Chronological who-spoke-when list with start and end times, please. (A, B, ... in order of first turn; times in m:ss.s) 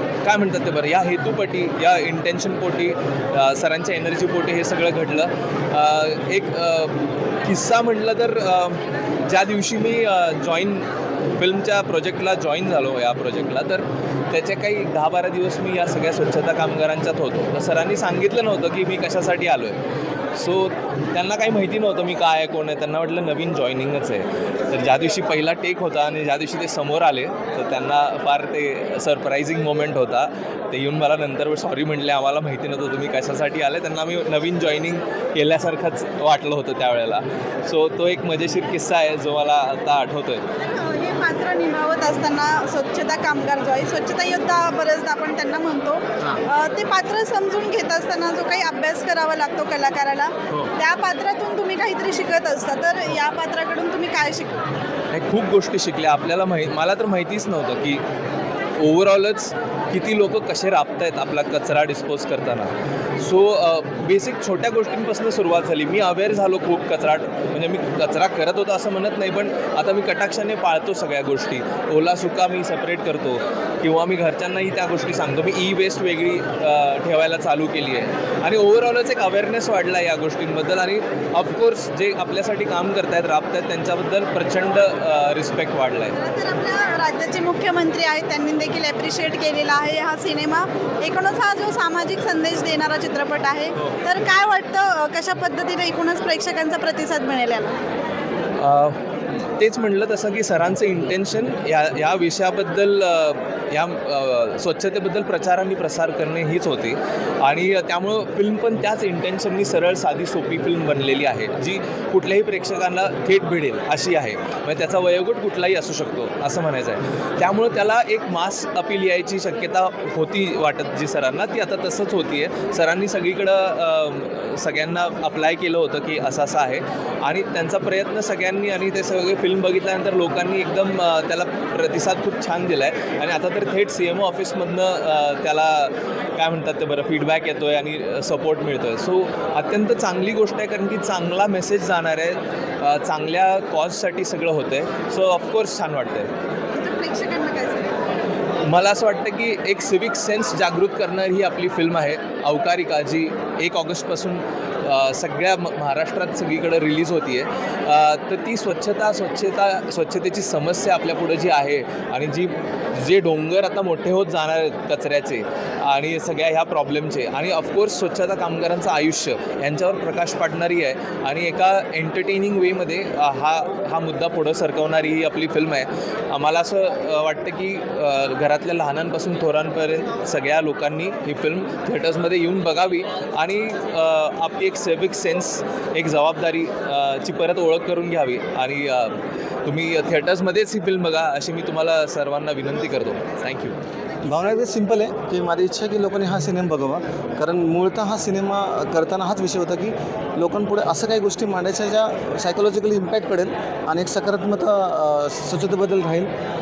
0:00.2-0:10.9 A
0:11.4-0:19.8 A
0:20.4-0:40.4 A
0:40.6-0:54.6 B
0:55.1-0:58.0 A
0:58.8-1:26.2 A
1:26.2-1:37.8 B
1:38.6-1:39.0 A
1:39.6-2:26.3 A
2:26.7-2:27.9 B
2:28.6-3:13.8 A
3:14.2-3:26.3 C